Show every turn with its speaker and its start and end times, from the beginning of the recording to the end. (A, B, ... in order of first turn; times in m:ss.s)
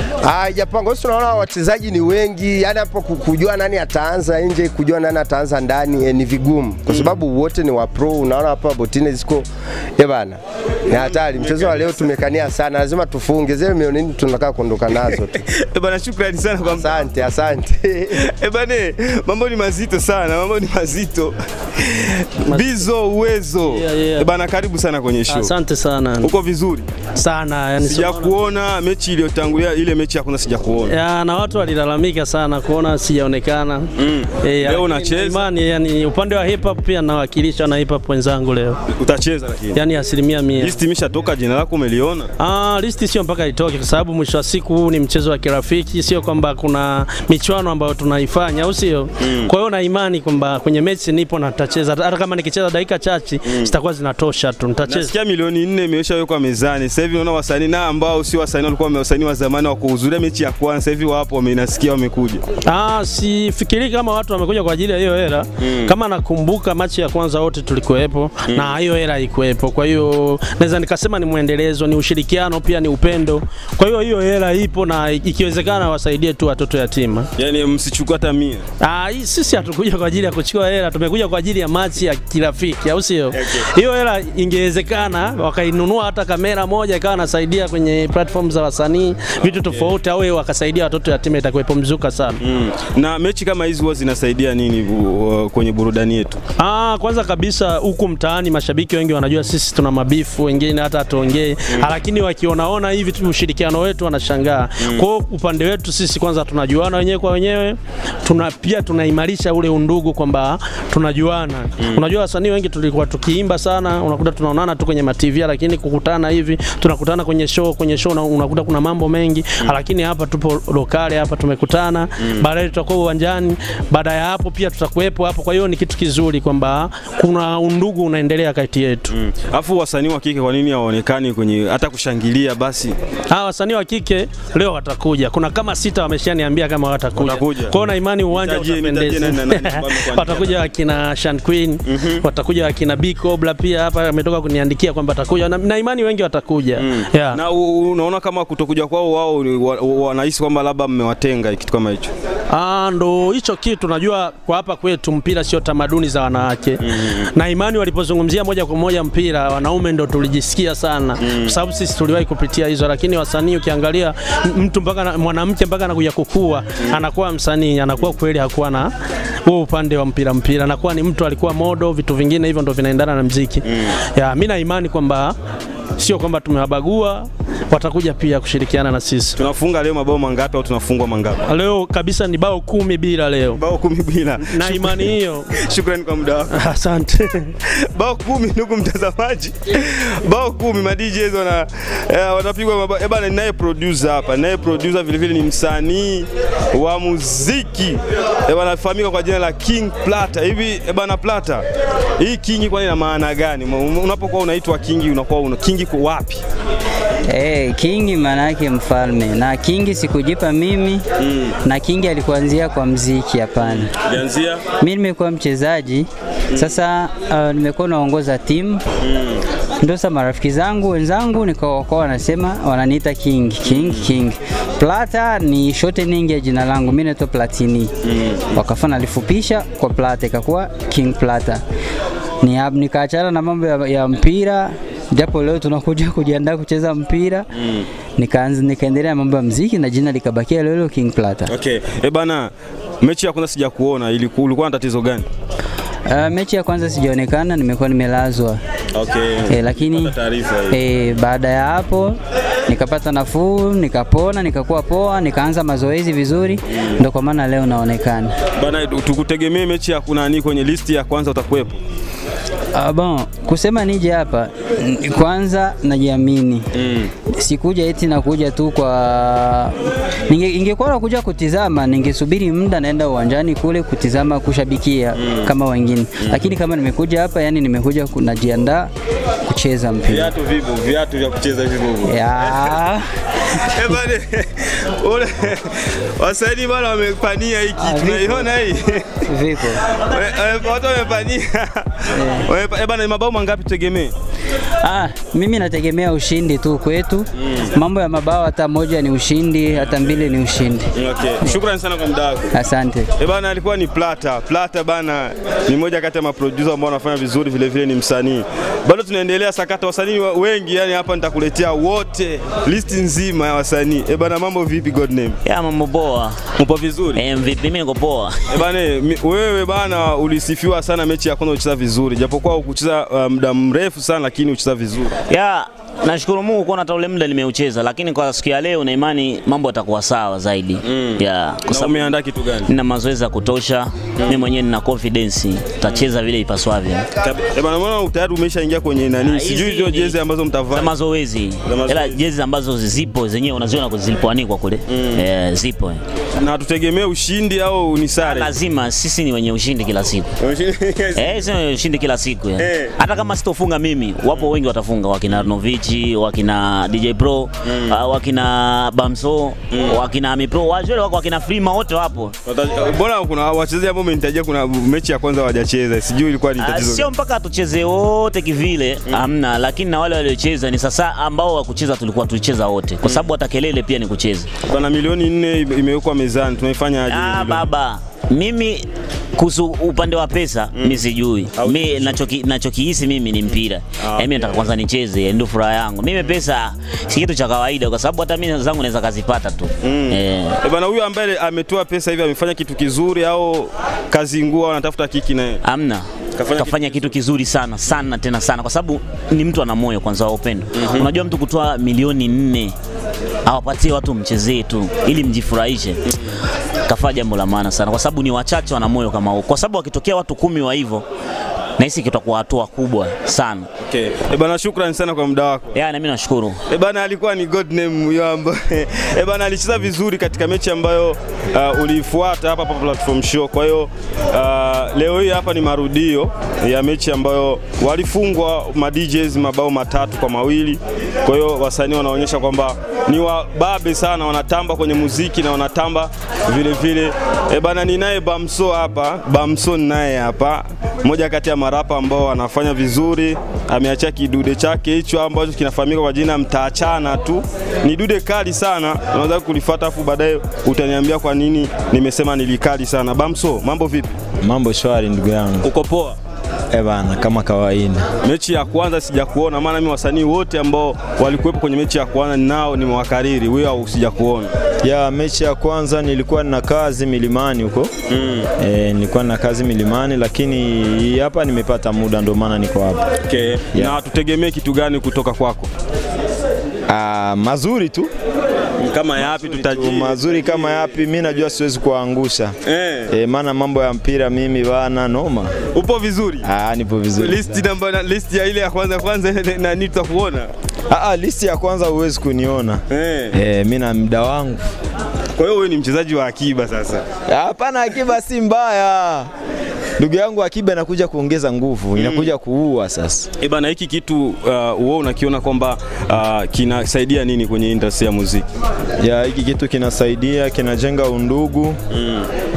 0:00.2-0:15.4 A
0:06.9-0:07.2 B
0:10.9-0:12.0 B
0:15.6-0:17.0 B
0:16.6-0:18.2 A
0:18.2-0:25.5 B
0:22.5-0:22.9 C
0:23.7-0:24.3 C
0:25.3-0:26.3 C
0:26.2-0:26.9 B
0:27.2-0:28.4 C
0:27.8-0:31.0 B
0:30.9-0:33.9 C
0:34.0-0:35.5 B
0:34.4-0:38.8 C
0:39.0-0:39.8 B
0:39.8-0:40.8 C
0:40.6-0:42.3 B
0:42.4-0:55.1 C
0:49.2-0:49.5 B
0:53.5-0:53.7 B
0:54.9-1:02.5 B
1:02.7-1:17.3 C
1:05.6-1:05.9 B
1:08.5-1:08.8 B
1:17.4-1:18.6 B
1:18.8-1:32.4 C
1:29.4-1:30.0 B
1:32.4-1:36.4 B
1:36.6-2:09.1 C
2:09.1-2:13.0 B
2:13.3-2:27.4 C
2:17.2-2:20.7 B
2:21.9-2:22.2 B
2:26.8-2:32.1 B
2:32.5-2:48.9 C
2:41.2-2:41.6 B
2:49.5-2:55.4 C
2:56.0-2:59.4 C
2:59.4-3:01.4 B
3:01.5-3:03.6 C
3:03.6-3:06.6 B
3:04.4-3:05.5 C
3:06.5-3:07.5 C
3:08.0-3:21.6 B
3:22.2-3:26.4 B
3:27.3-3:31.0 D
3:31.2-3:31.6 B
3:31.6-3:33.9 D
3:33.6-3:34.6 B
3:34.8-3:38.8 D
3:39.0-3:39.4 B
3:39.8-3:47.9 D
3:43.7-3:44.0 B
3:48.1-3:48.4 B
3:48.5-3:51.6 D
3:52.4-3:57.5 D
3:57.6-3:57.9 B
3:58.2-4:01.5 D
4:01.5-4:05.3 B
4:06.1-4:08.6 D
4:09.0-4:10.8 B
4:09.5-4:10.1 D
4:10.7-4:18.4 D
4:18.6-4:21.8 B
4:22.8-4:26.7 D
4:26.8-4:27.1 B
4:27.3-4:29.8 D
4:30.3-4:38.9 D
4:35.2-4:35.5 B
4:39.5-4:40.3 D
4:40.1-4:42.8 B
4:42.1-4:43.0 D
4:43.6-4:49.2 B
4:47.8-4:48.5 D
4:49.3-4:49.8 D
4:50.0-4:54.1 B
4:52.2-4:52.5 D
4:54.8-5:00.9 D
5:01.0-5:02.5 B
5:02.5-5:03.1 D
5:03.2-5:15.4 B
5:15.4-5:16.5 E
5:16.6-5:17.3 B
5:17.1-5:18.6 E
5:18.5-5:25.2 B
5:25.3-5:32.1 E
5:30.9-5:32.7 B
5:32.7-5:37.1 E
5:34.2-5:34.5 B
5:37.2-5:40.9 B
5:39.2-5:40.2 E
5:40.7-5:46.0 E
5:41.6-5:42.2 B
5:44.9-5:45.2 B
5:46.4-5:48.5 B
5:48.2-5:50.3 E
5:50.4-5:51.5 B
5:51.2-6:02.3 E
5:52.6-5:52.9 B
5:57.7-5:57.9 B
5:59.7-6:00.0 B
6:02.5-6:07.1 B
6:06.6-6:14.5 E
6:13.0-6:13.3 B
6:14.7-6:17.7 B
6:17.1-6:30.6 E
6:20.8-6:22.2 B
6:23.5-6:24.6 B
6:29.8-6:35.6 B
6:35.6-6:42.7 E
6:36.4-6:37.2 B
6:40.7-6:41.1 B
6:43.5-6:46.0 E
6:46.9-6:51.0 E
6:51.8-6:53.7 E
6:53.9-6:55.7 B
6:55.7-6:56.6 E
6:56.7-7:34.1 B
7:34.4-7:35.7 F
7:35.6-7:36.2 B
7:36.7-7:38.1 F
7:38.2-7:44.5 B
7:44.8-7:47.9 F
7:48.1-7:48.5 B
7:48.6-7:53.1 F
7:53.3-7:55.7 B
7:56.9-7:58.1 F
7:58.8-8:01.0 B
7:59.2-8:02.6 F
8:02.7-8:03.1 B
8:03.1-8:05.5 F
8:05.7-8:06.5 B
8:06.4-8:07.4 F
8:07.2-8:10.5 B
8:10.9-8:14.6 F
8:12.9-8:13.3 B
8:15.4-8:17.0 B
8:17.3-8:19.3 F
8:20.0-8:23.3 F
8:22.0-8:22.3 B
8:23.4-8:28.5 B
8:29.0-8:31.8 F
8:31.9-8:32.3 B